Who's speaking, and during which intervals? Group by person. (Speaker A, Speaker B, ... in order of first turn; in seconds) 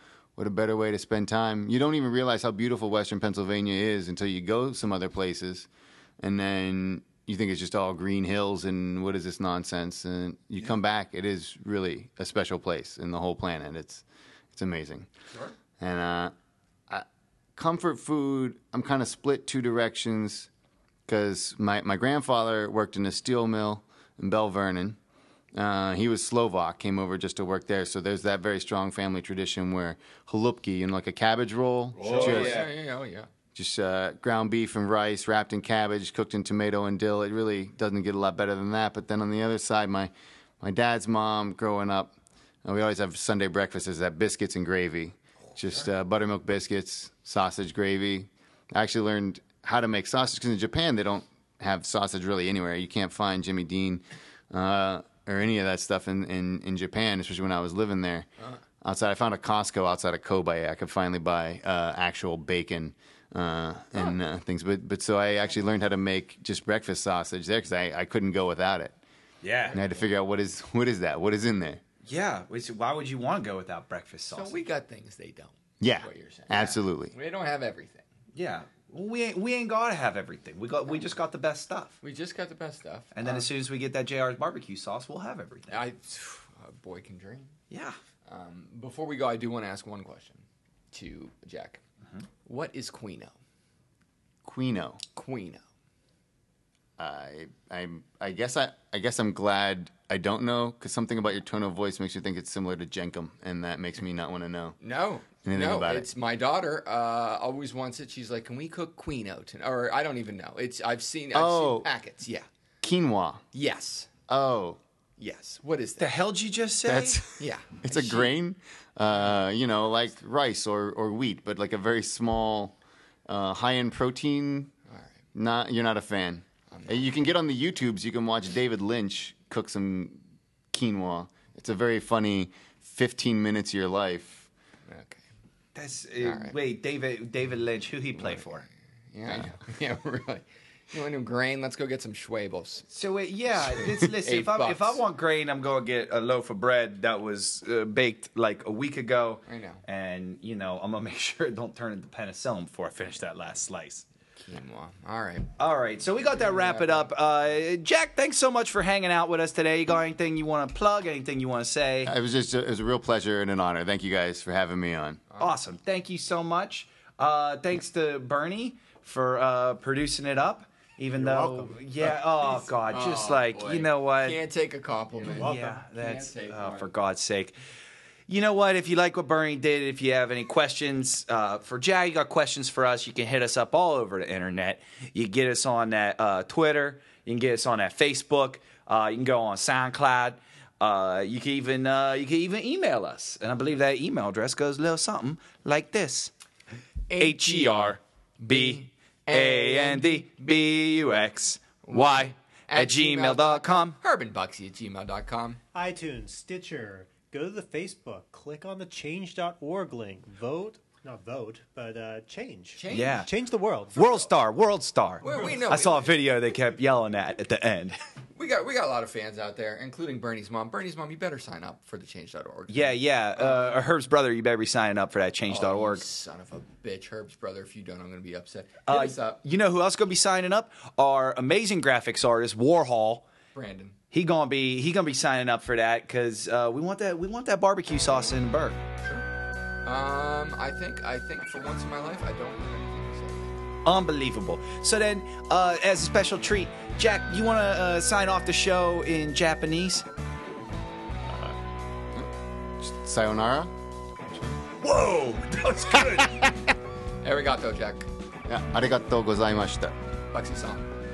Speaker A: 0.4-5.7, 6.2-15.1, 15.8-16.3, 16.9-20.5, 21.1-25.0, 25.5-32.7, 33.5-58.3, 58.8-69.0, 69.7-71.8, 75.8-77.1, 94.4-95.0, 97.0-104.8, 105.4-106.1, 111.3-111.9, 112.8-113.4, 114.3-114.8, 116.8-122.8, 123.3-124.7, 125.3-130.2, 130.7-134.5, 162.0-165.2, 251.2-251.6, 252.1-253.7, 258.5-259.9
Speaker B: 31.9-32.7, 69.4-69.8, 72.0-74.6, 78.3-82.0, 83.1-85.8, 87.7-88.0, 116.0-117.2, 135.7-138.7, 142.9-154.0, 155.6-162.1, 165.4-174.4, 175.3-177.5, 178.3-196.3, 197.2-204.0, 212.9-213.3, 213.9-218.0, 222.7-226.0, 228.9-233.2, 234.1-238.8, 243.8-250.1, 254.8-256.6
Speaker C: 32.0-33.3, 69.7-70.1, 74.3-78.0, 82.0-83.5, 85.7-87.5, 88.2-91.8, 92.4-93.3, 95.1-95.6, 104.8-112.5, 113.5-114.1, 115.2-116.1, 117.3-118.3, 124.9-125.1, 126.7-127.0, 134.8-135.2, 136.2-136.6, 138.2-138.4, 139.1-142.9, 143.6-145.0, 149.4-149.8, 154.4-155.5, 156.3-157.1, 172.0-176.9, 197.1-200.3, 201.8-205.6, 212.7-213.2, 215.2-216.2, 218.3-223.6, 225.4-229.4, 233.5-233.9, 239.8-243.6, 257.2-258.1, 260.3-260.9
Speaker D: 171.4-171.7, 175.3-175.8, 205.7-214.3